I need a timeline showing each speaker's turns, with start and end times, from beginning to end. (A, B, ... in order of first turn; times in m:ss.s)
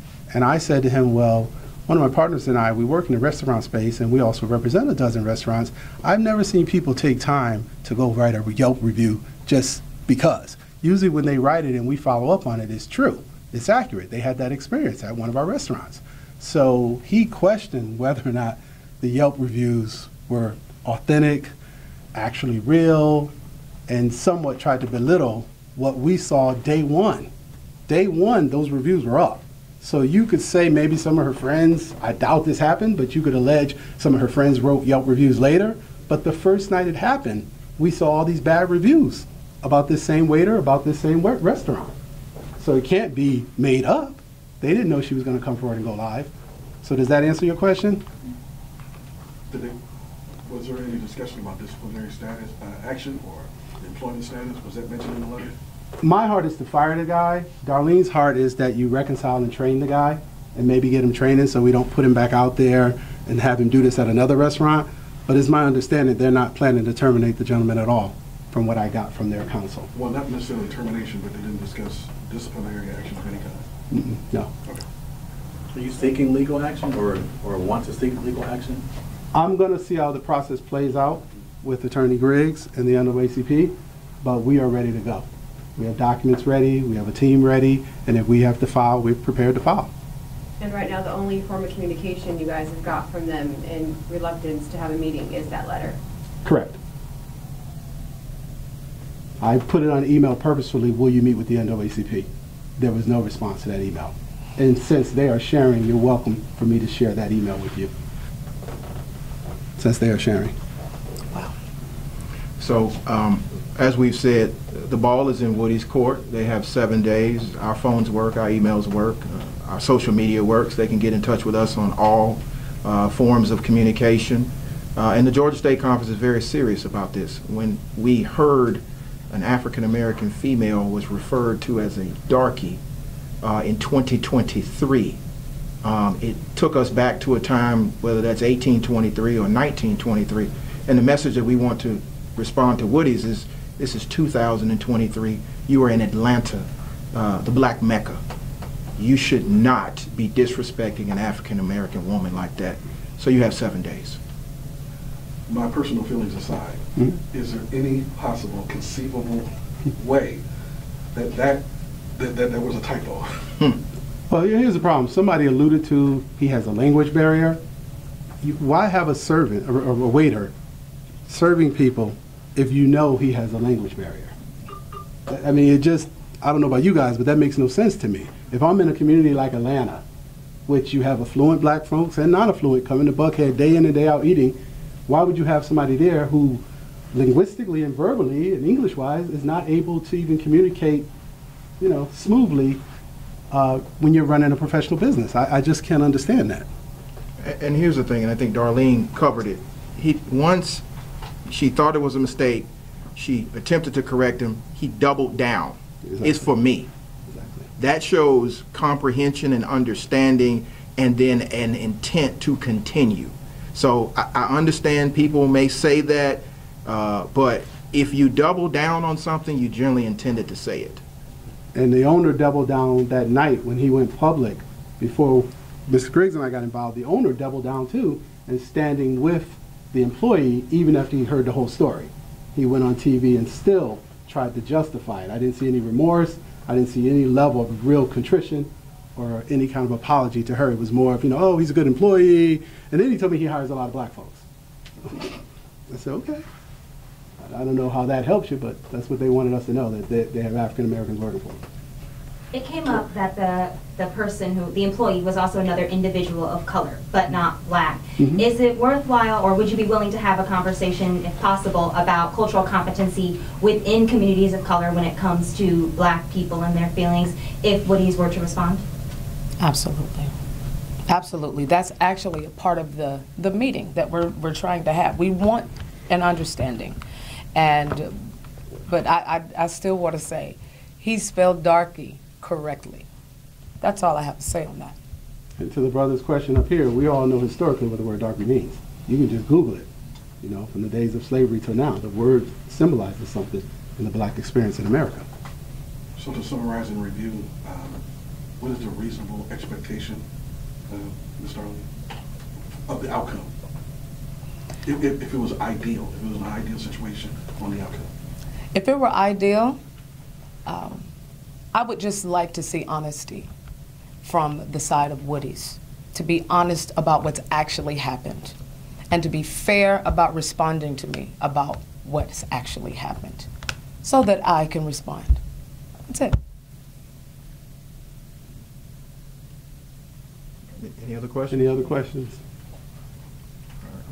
0:00.3-0:21.5 A
0:22.1-0:23.3 A
0:23.9-0:27.3 A
0:27.9-0:41.9 A
0:42.6-0:48.0 A
0:49.5-0:49.8 B
0:50.4-0:55.6 B
0:56.0-1:09.9 A
1:09.9-1:13.6 B
1:13.9-1:14.5 A
1:15.7-1:18.8 C
1:19.3-1:29.9 A
1:30.6-1:36.0 D
1:36.4-1:36.8 A
1:39.4-1:47.9 A
1:49.8-1:50.6 A
1:52.6-2:12.8 E
2:13.4-2:15.2 E
2:15.8-2:28.2 E
2:29.0-2:34.2 E
2:35.5-2:40.4 B
2:41.1-2:41.6 B
2:42.2-2:43.7 B
2:44.3-2:47.6 A
2:48.4-2:50.5 A
2:51.3-2:54.3 A
2:55.3-3:00.0 A
3:00.7-3:11.1 A
3:11.8-3:12.8 A
3:13.5-3:16.7 A
3:17.4-3:20.8 E
3:21.5-3:26.9 E
3:26.0-3:26.5 A
3:27.3-3:27.7 A
3:27.8-3:41.0 E
3:41.7-4:04.4 A
4:05.0-4:06.4 A
4:07.4-4:11.6 A
4:12.5-4:28.8 F
4:18.2-4:18.4 A
4:29.6-4:30.3 G
4:31.1-4:37.0 G
4:37.5-4:38.2 G
4:38.9-4:43.0 G
4:43.8-4:45.0 G
4:45.6-4:49.9 A
4:50.4-4:55.3 A
4:56.2-4:58.0 B
4:58.6-5:00.2 B
5:00.9-5:01.8 B
5:02.9-5:03.5 B
5:04.8-5:08.1 B
5:08.7-5:09.8 G
5:10.6-5:11.1 G
5:11.7-5:13.5 G
5:14.2-5:18.5 G
5:19.1-5:23.5 G
5:24.0-5:25.4 G
5:26.1-5:26.4 G
5:30.8-5:31.9 E
5:31.5-5:32.4 A